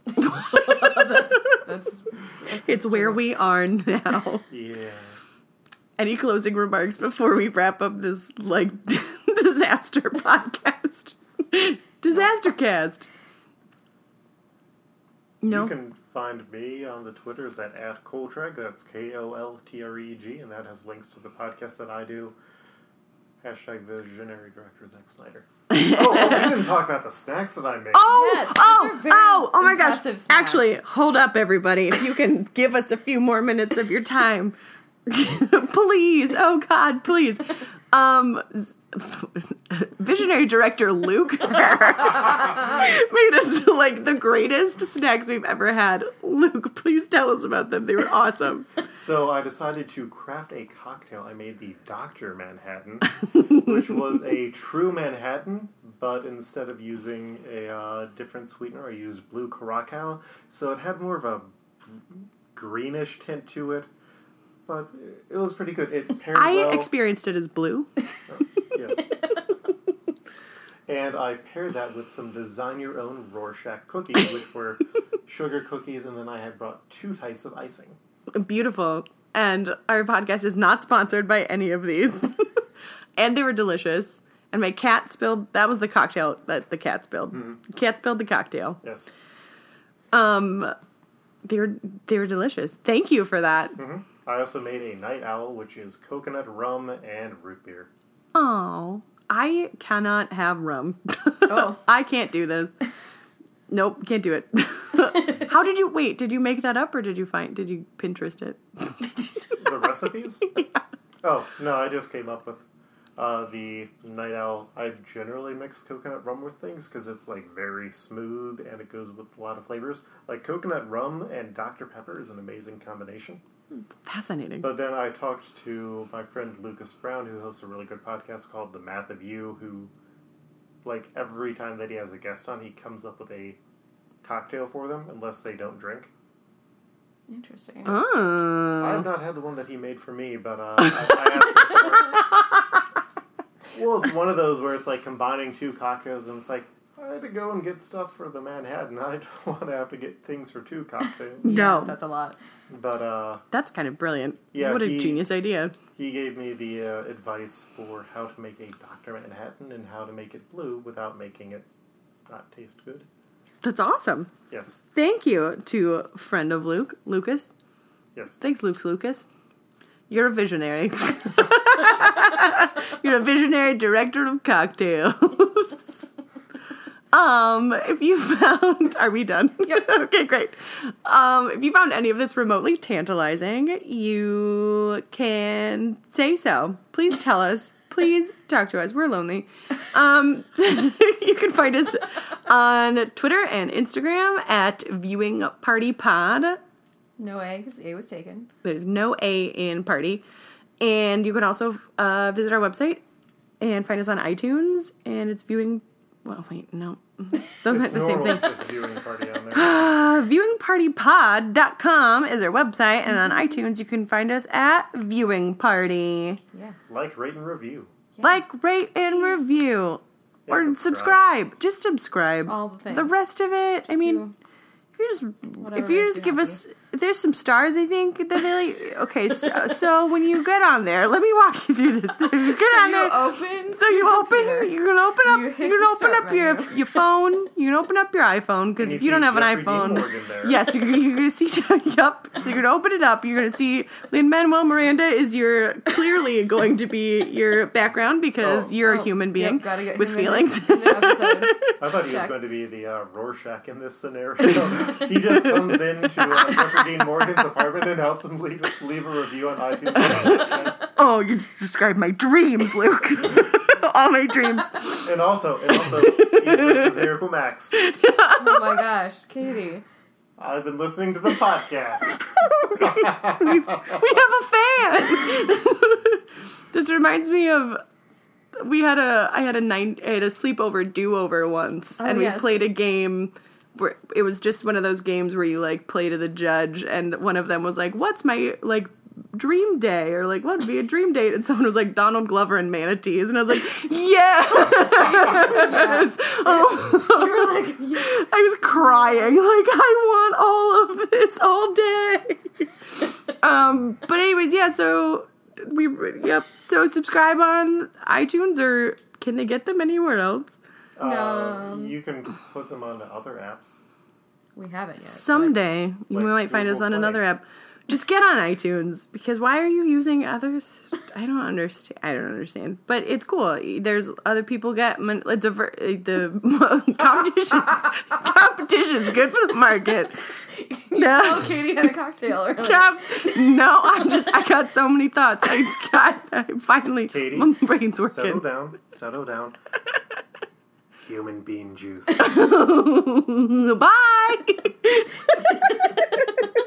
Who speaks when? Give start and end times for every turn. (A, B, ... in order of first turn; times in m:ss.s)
0:00.2-0:01.4 A
0:00.3-0:03.2 B
0:02.5-0:04.5 A
0:04.5-0:05.2 C
0:06.0-0:13.1 A
0:15.4-0:15.8 A
0:15.4-0:22.4 C
0:23.4-0:28.2 C
0:25.7-0:26.5 A
0:27.9-0:34.6 A
0:28.1-0:30.8 B
0:35.1-0:48.8 A
0:48.9-1:03.9 C
1:04.7-1:06.9 C
1:06.4-1:07.9 A
1:08.3-1:09.1 C
1:10.9-1:18.0 C
1:18.3-1:22.6 A
1:23.2-1:28.8 A
1:28.8-1:29.1 C
1:30.1-1:30.8 A
1:31.4-1:33.8 A
1:33.8-1:37.9 C
1:38.3-1:42.8 A
1:41.5-1:41.8 B
1:43.7-1:49.2 A
1:49.6-1:50.6 C
1:51.2-1:52.6 C
1:53.2-2:03.4 C
2:04.0-2:04.7 A
2:04.6-2:09.9 C
2:10.8-2:13.6 C
2:14.2-2:16.1 C
2:17.3-2:18.0 B
2:17.8-2:19.1 A
2:18.8-2:22.4 C
2:23.7-2:31.6 C
2:31.4-2:32.4 B
2:31.4-2:32.0 A
2:32.7-2:33.4 C
2:33.5-2:35.8 A
2:34.5-2:35.3 C
2:35.9-2:41.7 C
2:42.3-2:43.1 C
2:43.6-2:44.3 A
2:44.5-2:44.8 C
2:44.9-2:47.5 A
2:48.2-2:48.4 C
2:48.4-2:49.3 A
2:50.1-2:56.1 A
2:57.1-3:16.6 A
3:17.2-3:18.5 B
3:18.6-3:20.2 A
3:20.8-3:23.0 A
3:23.6-3:28.6 A
3:27.7-3:29.8 C
3:29.5-3:36.4 A
3:36.5-3:36.8 B
3:36.9-3:37.9 C
3:38.2-3:44.2 A
3:40.5-3:41.2 C
3:42.5-3:43.2 B
3:43.9-3:44.3 B
3:45.0-4:11.7 A
3:45.6-3:46.6 B
3:52.4-3:57.0 B
3:58.8-4:00.6 C
4:08.4-4:08.7 C
4:08.8-4:12.3 B
4:11.8-4:20.8 C
4:20.1-4:25.1 A
4:25.0-4:27.8 C
4:25.7-4:27.0 A
4:27.7-4:28.8 A
4:28.4-4:29.8 B
4:30.4-4:34.0 C
4:32.4-4:37.8 A
4:38.6-5:10.6 A
4:42.0-4:42.6 B
4:54.9-4:59.4 B
5:11.0-5:13.8 C
5:11.0-5:12.0 B
5:14.6-5:15.5 B
5:15.0-5:30.4 A
5:16.1-5:17.2 C
5:30.5-5:33.6 B
5:30.9-5:31.9 A
5:32.5-5:38.4 A
5:37.1-5:37.5 C
5:38.1-5:39.6 C
5:41.0-5:42.3 C
5:42.2-5:46.1 A